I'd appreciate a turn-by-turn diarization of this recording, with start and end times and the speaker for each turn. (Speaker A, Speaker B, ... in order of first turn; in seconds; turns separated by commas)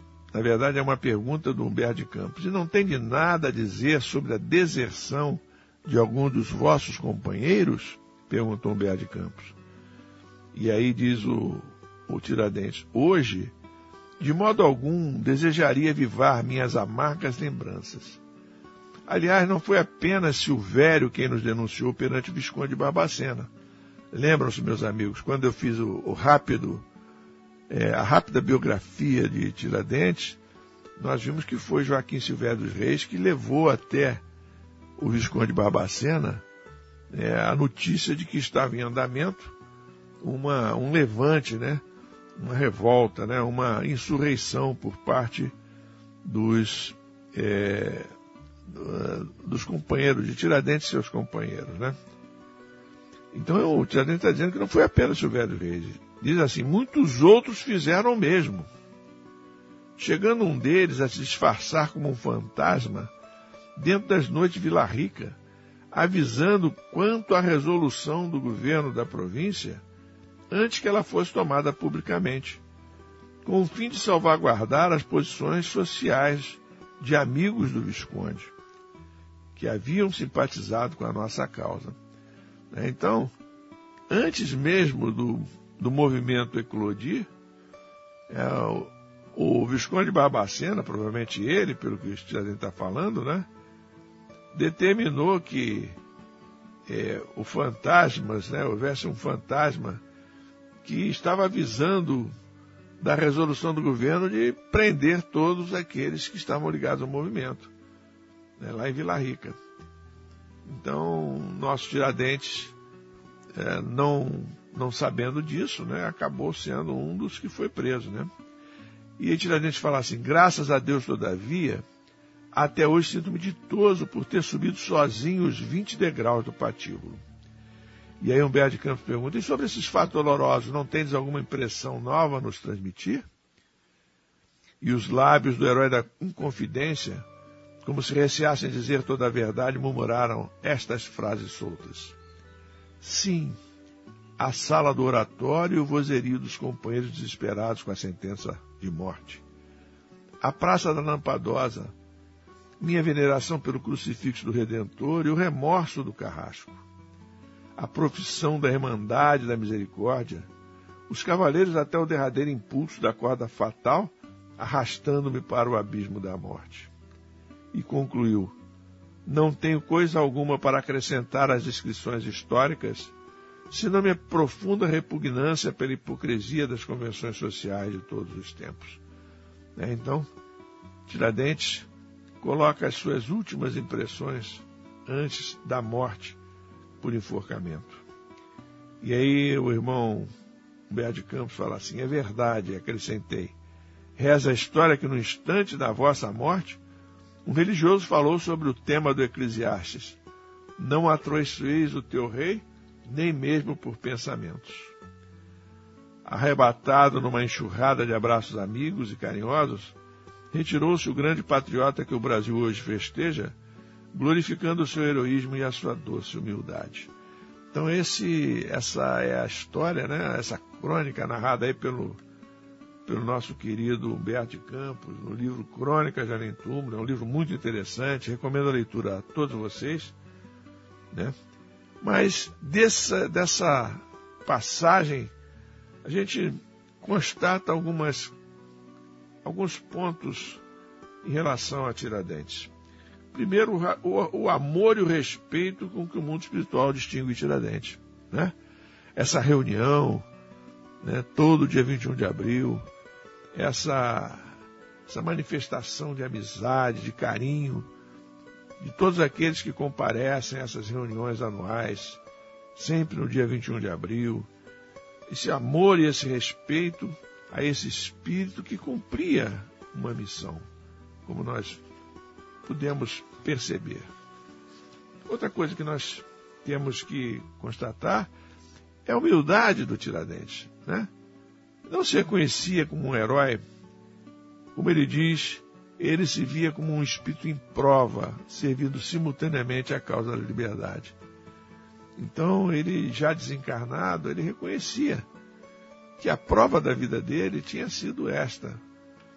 Speaker A: 0.3-9.6, Speaker A: 10.5-13.5, Speaker A: 14.2-18.2, Speaker A: 19.1-23.5, Speaker A: 24.1-26.8, Speaker A: 27.7-30.4, Speaker A: 31.0-34.2, Speaker A: 35.0-36.4, Speaker A: 37.1-39.5, Speaker A: 40.2-41.8, Speaker A: 42.4-45.5, Speaker A: 46.2-48.1, Speaker A: 48.7-52.0, Speaker A: 53.3-58.7, Speaker A: 60.0-63.1, Speaker A: 63.8-65.4, Speaker A: 65.9-69.8, Speaker A: 70.5-72.6, Speaker A: 73.4-78.5, Speaker A: 79.5-81.9, Speaker A: 82.7-83.3, Speaker A: 84.1-87.3, Speaker A: 88.3-93.5, Speaker A: 94.5-96.0, Speaker A: 96.9-100.0, Speaker A: 100.8-102.3, Speaker A: 103.0-107.7, Speaker A: 108.6-109.6, Speaker A: 110.7-112.7, Speaker A: 113.5-118.3, Speaker A: 119.2-121.8, Speaker A: 122.5-127.2, Speaker A: 128.2-133.2, Speaker A: 134.8-137.2, Speaker A: 137.8-142.2, Speaker A: 143.0-143.6, Speaker A: 144.4-149.4, Speaker A: 150.4-151.9, Speaker A: 152.8-156.8, Speaker A: 157.8-160.5, Speaker A: 161.1-166.9, Speaker A: 167.7-168.5, Speaker A: 169.2-173.1, Speaker A: 173.7-179.0, Speaker A: 179.8-180.3, Speaker A: 181.1-181.9, Speaker A: 182.4-186.4, Speaker A: 187.0-188.0, Speaker A: 189.0-190.3, Speaker A: 190.9-193.5, Speaker A: 194.2-196.8, Speaker A: 197.4-200.2, Speaker A: 200.8-204.9, Speaker A: 206.2-209.9, Speaker A: 210.5-213.5, Speaker A: 214.1-217.1, Speaker A: 217.7-222.2, Speaker A: 223.1-230.1, Speaker A: 232.0-235.3, Speaker A: 236.0-238.3, Speaker A: 239.4-240.6, Speaker A: 241.2-242.7, Speaker A: 243.3-248.5, Speaker A: 249.2-250.2, Speaker A: 251.0-252.8, Speaker A: 253.5-254.5, Speaker A: 255.1-257.9, Speaker A: 258.8-262.2, Speaker A: 262.7-264.5, Speaker A: 265.3-270.6, Speaker A: 271.2-271.8, Speaker A: 272.6-274.1, Speaker A: 275.3-278.3, Speaker A: 279.1-281.1, Speaker A: 281.9-283.6, Speaker A: 284.7-291.1, Speaker A: 292.2-295.2, Speaker A: 296.2-298.8